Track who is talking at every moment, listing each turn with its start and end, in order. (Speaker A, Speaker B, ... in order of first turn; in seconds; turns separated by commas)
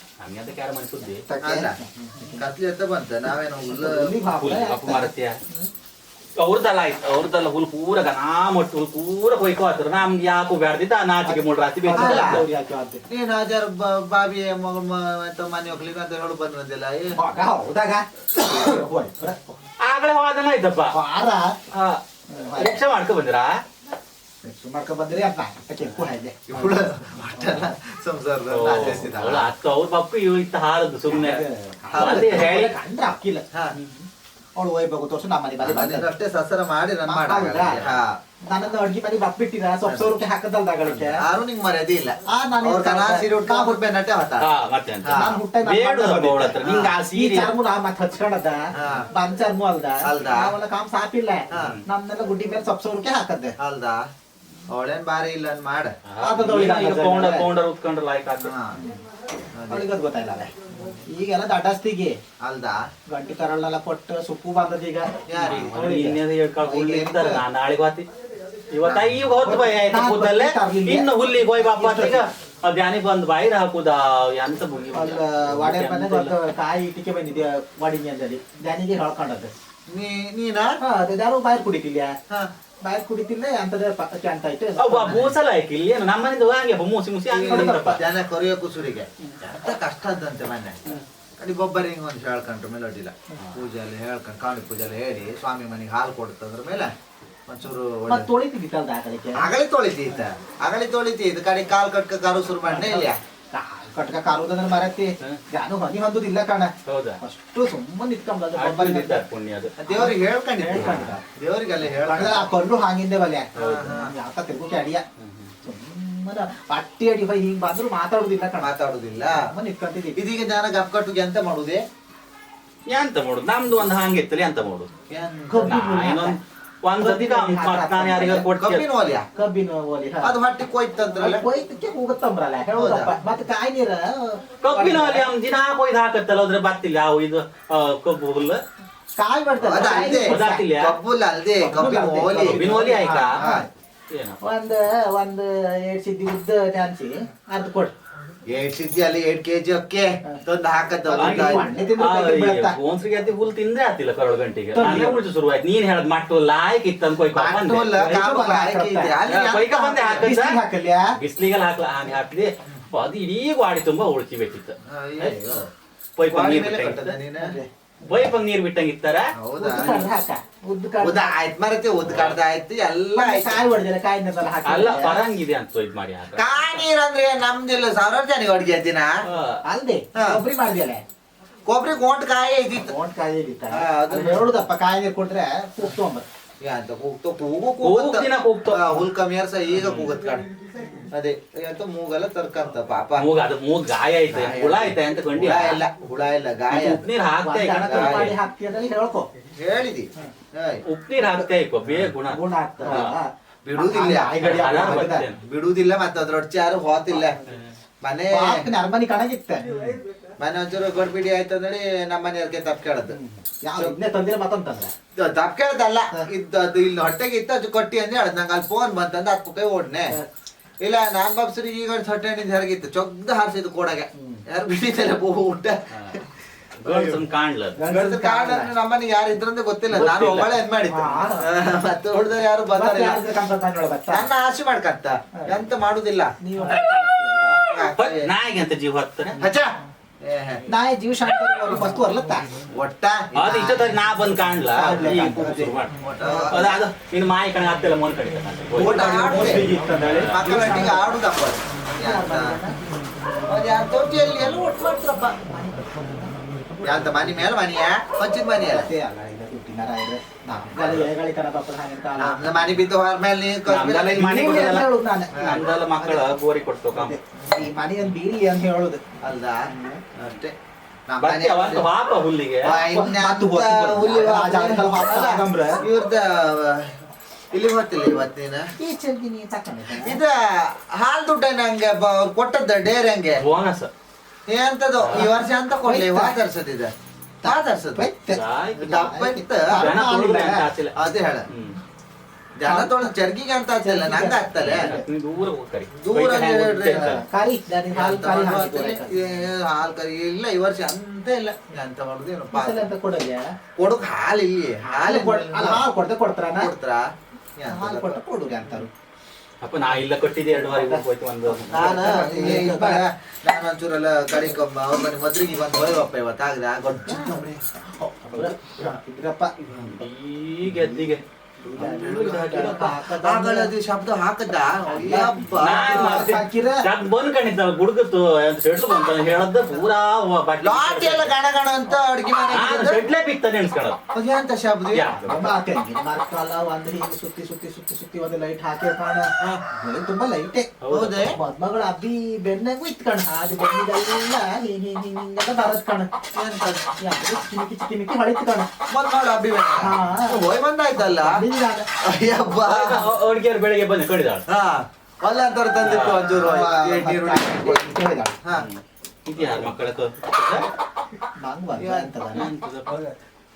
Speaker A: 0.2-1.2, Speaker B: 1.3-2.5, Speaker C: 1.4-4.1, Speaker B: 3.6-5.7, Speaker A: 4.4-5.4, Speaker A: 6.4-12.4, Speaker B: 11.2-13.0, Speaker C: 12.0-12.4, Speaker C: 13.1-17.2, Speaker B: 17.2-19.6, Speaker A: 19.8-20.9, Speaker B: 20.9-21.6, Speaker A: 21.7-22.0, Speaker B: 22.3-22.8, Speaker A: 22.6-23.6, Speaker B: 24.4-26.8, Speaker C: 26.5-29.5, Speaker B: 27.4-27.6, Speaker A: 28.5-31.4, Speaker B: 31.1-36.1, Speaker C: 31.9-32.5, Speaker A: 31.9-32.7, Speaker C: 35.6-38.2, Speaker B: 37.1-37.9, Speaker B: 38.5-41.2, Speaker C: 39.9-40.1, Speaker C: 41.0-44.5, Speaker B: 42.3-43.8, Speaker A: 44.4-47.5, Speaker C: 45.0-45.4, Speaker B: 45.1-53.6, Speaker C: 48.8-49.1, Speaker C: 50.0-50.5, Speaker C: 51.5-51.8, Speaker A: 51.5-51.8, Speaker C: 53.6-54.1, Speaker C: 54.7-56.0, Speaker A: 56.1-58.5, Speaker B: 56.2-57.5, Speaker C: 58.4-59.0, Speaker C: 59.5-59.9, Speaker B: 59.7-60.5, Speaker C: 60.7-61.0, Speaker B: 61.1-62.2, Speaker C: 62.4-62.9, Speaker B: 63.1-66.2, Speaker C: 65.3-65.9, Speaker A: 65.4-68.1, Speaker C: 66.7-67.4, Speaker A: 68.7-76.3, Speaker C: 68.8-69.4, Speaker B: 69.5-72.3, Speaker B: 74.9-79.5, Speaker C: 79.9-80.8, Speaker B: 80.8-82.2, Speaker B: 82.8-85.3, Speaker A: 84.8-88.0, Speaker C: 85.0-85.3, Speaker C: 87.3-96.9, Speaker B: 87.4-88.0, Speaker C: 97.5-98.3, Speaker B: 98.1-99.5, Speaker C: 99.4-103.2, Speaker B: 102.7-109.2, Speaker A: 106.9-107.2, Speaker A: 108.6-109.8, Speaker C: 109.8-112.5, Speaker B: 109.9-111.2, Speaker A: 110.8-111.1, Speaker B: 112.0-115.0, Speaker C: 113.6-114.1, Speaker A: 113.6-113.9, Speaker A: 115.2-115.5, Speaker B: 115.6-118.7, Speaker C: 118.6-119.5, Speaker B: 119.3-120.2, Speaker C: 120.2-121.8, Speaker A: 122.9-124.9, Speaker C: 125.1-125.7, Speaker B: 125.5-126.4, Speaker A: 125.7-128.8, Speaker B: 127.0-128.5, Speaker C: 128.6-129.3, Speaker B: 129.3-130.4, Speaker C: 130.2-131.4, Speaker B: 131.2-135.3, Speaker C: 132.7-133.1, Speaker A: 134.6-138.6, Speaker B: 139.2-140.7, Speaker C: 139.6-143.7, Speaker A: 139.7-141.0, Speaker B: 141.6-143.7, Speaker A: 141.8-143.4, Speaker A: 144.1-144.4, Speaker B: 144.4-147.9, Speaker C: 148.5-151.7, Speaker B: 151.1-152.8, Speaker A: 151.2-157.9, Speaker B: 154.8-155.2, Speaker C: 157.3-160.3, Speaker B: 157.9-159.1, Speaker A: 159.3-160.6, Speaker B: 160.2-161.2, Speaker A: 161.2-165.4, Speaker C: 164.8-165.7, Speaker A: 166.2-167.2, Speaker C: 166.3-167.6, Speaker B: 167.4-167.7, Speaker A: 168.1-169.3, Speaker C: 169.4-170.0, Speaker B: 169.6-171.3, Speaker C: 171.0-173.6, Speaker A: 172.1-172.4, Speaker B: 173.2-175.2, Speaker A: 174.7-176.5, Speaker C: 176.3-179.2, Speaker A: 179.3-179.6, Speaker B: 179.6-181.0, Speaker C: 180.2-180.4, Speaker C: 181.7-182.9, Speaker B: 182.8-186.3, Speaker C: 183.7-184.5, Speaker C: 186.6-190.5, Speaker A: 187.8-188.9, Speaker A: 189.8-190.1, Speaker C: 191.1-193.3, Speaker A: 193.2-195.8, Speaker C: 194.3-197.1, Speaker A: 196.7-198.3, Speaker B: 197.4-199.3, Speaker C: 197.9-198.3, Speaker C: 199.5-200.8, Speaker A: 200.9-203.1, Speaker B: 202.2-205.3, Speaker C: 202.8-203.1, Speaker C: 203.7-204.6, Speaker A: 204.4-205.4, Speaker C: 205.4-207.4, Speaker C: 208.0-208.7, Speaker B: 208.3-209.8, Speaker C: 210.4-213.2, Speaker B: 213.1-214.9, Speaker C: 215.2-220.2, Speaker C: 220.8-226.3, Speaker B: 224.1-224.4, Speaker A: 226.8-227.8, Speaker C: 226.8-227.2, Speaker B: 227.8-228.7, Speaker C: 227.8-233.2, Speaker A: 229.9-230.5, Speaker B: 230.9-231.5, Speaker B: 232.8-234.3, Speaker C: 234.1-236.3, Speaker B: 236.4-237.6, Speaker C: 237.4-238.3, Speaker A: 238.0-239.3, Speaker C: 239.4-240.6, Speaker B: 240.7-242.5, Speaker C: 242.7-244.0, Speaker A: 243.3-246.0, Speaker B: 244.7-246.8, Speaker C: 246.0-246.7, Speaker A: 246.5-250.4, Speaker C: 248.8-249.7, Speaker B: 248.8-251.2, Speaker C: 250.3-252.6, Speaker B: 252.0-252.8, Speaker C: 253.5-255.4, Speaker B: 255.4-256.4, Speaker C: 256.8-258.9, Speaker B: 258.6-262.6, Speaker C: 262.2-264.6, Speaker A: 263.7-264.9, Speaker B: 264.2-265.4, Speaker C: 265.3-265.6, Speaker A: 265.4-267.1, Speaker B: 266.9-269.1, Speaker C: 267.4-267.7, Speaker C: 269.2-270.6, Speaker B: 269.6-270.0, Speaker C: 271.1-271.9, Speaker A: 271.2-272.8, Speaker C: 272.6-277.0, Speaker B: 272.7-275.8, Speaker C: 277.5-278.7, Speaker B: 278.8-280.2, Speaker C: 280.0-283.4, Speaker A: 283.4-283.9, Speaker C: 284.5-286.9, Speaker A: 285.0-285.3, Speaker B: 285.8-286.4, Speaker B: 287.4-290.7, Speaker C: 287.5-288.1, Speaker A: 288.3-288.9, Speaker C: 288.8-290.1, Speaker A: 289.7-291.8, Speaker C: 291.0-291.5, Speaker C: 292.6-294.9, Speaker B: 292.6-293.3, Speaker B: 293.9-295.1, Speaker A: 294.6-297.2, Speaker C: 296.0-297.2, Speaker B: 297.1-299.2, Speaker C: 297.9-302.9, Speaker B: 302.5-303.6, Speaker C: 303.8-305.8, Speaker B: 304.9-306.7, Speaker C: 306.6-308.2, Speaker B: 307.7-308.9, Speaker A: 309.6-312.0, Speaker B: 310.5-313.0, Speaker C: 311.7-317.6, Speaker B: 317.1-319.5, Speaker C: 318.4-319.0, Speaker C: 319.7-320.0, Speaker A: 319.8-321.2, Speaker B: 321.6-323.7, Speaker A: 321.8-323.0, Speaker C: 321.8-326.3, Speaker B: 324.9-326.8, Speaker A: 325.6-331.3, Speaker C: 330.6-333.0, Speaker A: 332.3-334.0, Speaker C: 334.1-335.5, Speaker A: 334.9-335.2, Speaker B: 335.3-340.7, Speaker A: 340.8-341.3, Speaker C: 340.9-341.4, Speaker B: 341.3-346.1, Speaker C: 346.4-346.9, Speaker B: 347.0-348.7, Speaker C: 348.9-351.4, Speaker B: 349.8-350.4, Speaker B: 351.0-351.9, Speaker C: 352.0-353.1, Speaker A: 352.7-354.5, Speaker C: 354.5-357.9, Speaker A: 355.8-356.4, Speaker B: 356.4-358.4, Speaker A: 358.5-360.7, Speaker C: 359.4-359.7, Speaker B: 361.4-362.5, Speaker C: 361.8-362.1, Speaker A: 362.3-363.1